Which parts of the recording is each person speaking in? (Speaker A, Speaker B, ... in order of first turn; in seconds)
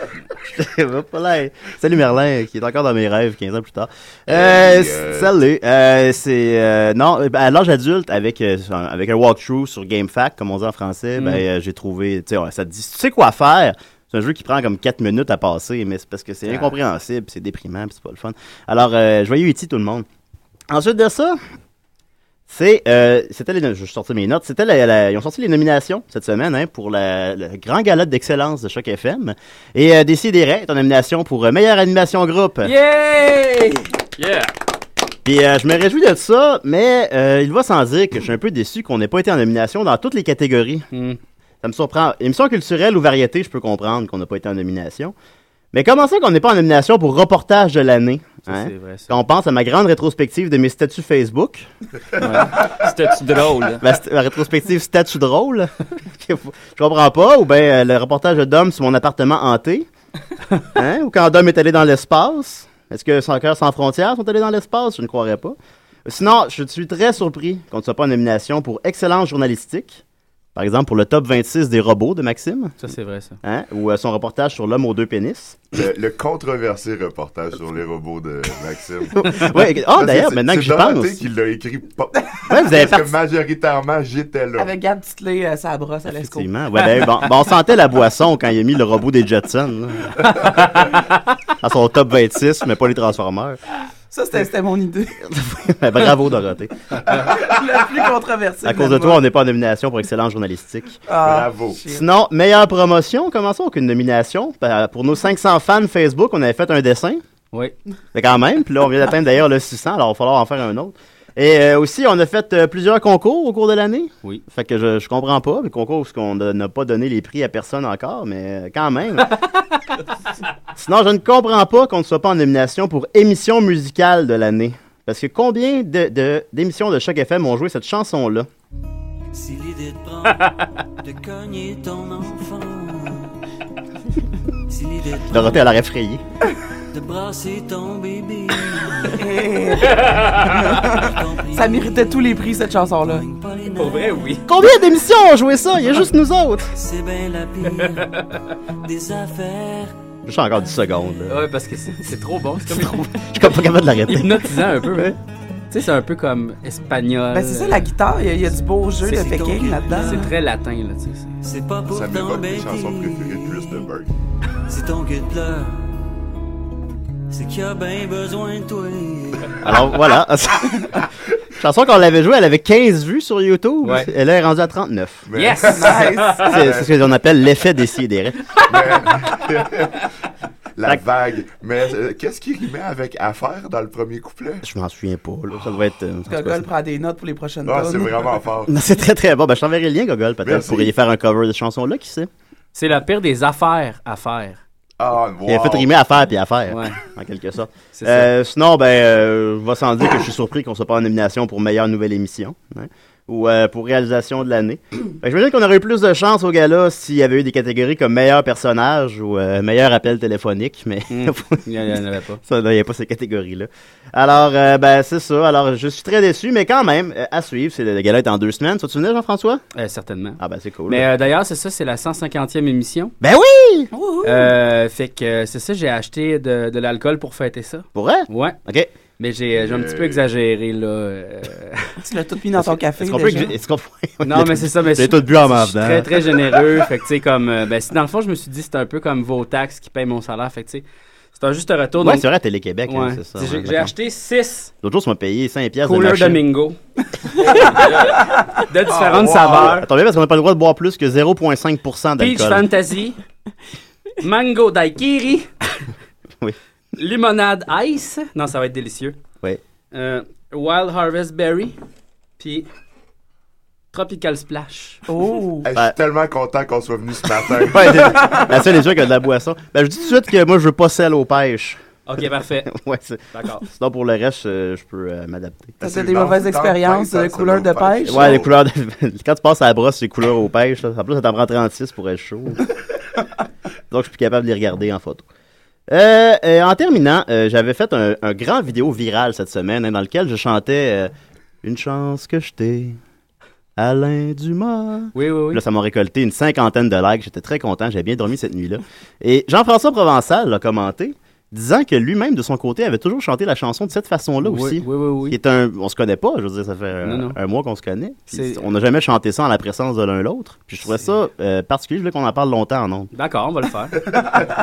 Speaker A: 0.5-20.1, 20.7-21.4, 22.5-32.7, 35.2-40.9, 41.6-45.1, 45.7-51.7, 53.8-59.9, 60.7-70.0, 70.6-72.8, 73.4-75.7, 79.2-81.2, 82.5-83.1, 86.2-90.9, 91.6-93.6, 95.2-96.7, 98.6-101.0, 101.9-107.2, 108.1-119.4, 120.8-128.5, 135.3-136.2, 144.5-146.7, 150.2-151.4, 152.7-155.1, 169.6-171.1, 171.6-175.3, 176.4-178.4, 184.6-186.7, 188.7-192.3, 195.5-211.7, 212.4-219.6, 220.4-221.1, 223.2-223.9, 227.9-228.9, 233.0-236.4, 242.0-243.9, 244.8-246.4, 249.2-252.7, 267.7-271.8, 272.7-275.8, 278.1-282.6, 283.9-285.3, 285.9-291.1, 291.6-293.0, 293.8-313.1
Speaker B: 4.3-5.3, 75.7-84.7, 101.2-101.8, 161.9-164.1, 175.3-176.9, 178.7-180.0, 180.8-184.6, 187.7-188.7, 190.4-190.9, 195.0-195.9, 229.6-230.2, 265.6-268.3, 275.8-278.5
Speaker C: 11.2-11.4, 16.5-16.8, 32.6-33.9, 40.9-41.2, 48.5-49.1, 52.2-52.5, 72.8-73.4, 140.1-140.6, 143.8-144.5, 151.3-153.0, 154.1-155.2, 155.7-157.8, 159.9-161.4, 173.8-174.1, 175.3-176.6, 192.7-194.6, 196.7-197.0, 197.9-198.3, 211.1-212.4, 219.8-223.1, 224.2-228.6, 229.2-232.0, 234.2-242.3, 242.9-244.7, 245.8-246.8, 247.3-249.9, 252.2-253.2, 254.2-255.5, 257.0-259.2, 259.9-261.8, 262.4-262.7, 263.9-265.1, 272.1-272.7, 273.3-273.6, 295.1-295.6, 304.4-305.4, 307.0-307.4, 308.3-308.7, 313.1-314.1
Speaker D: 34.2-34.5, 52.3-53.8, 247.8-248.1
Speaker E: 84.6-86.5, 94.1-95.2, 97.1-99.2, 101.1-102.0, 139.2-143.2, 157.3-160.2, 175.8-176.5, 186.3-188.2, 223.9-224.5, 232.0-233.5, 247.5-248.4, 249.1-249.6, 265.1-265.7, 275.8-278.4
Speaker F: 129.3-133.3, 134.7-135.7, 136.9-139.3, 140.0-144.4, 146.8-148.2, 148.8-149.9, 159.0-160.3, 161.4-163.9, 164.7-165.9, 167.3-169.6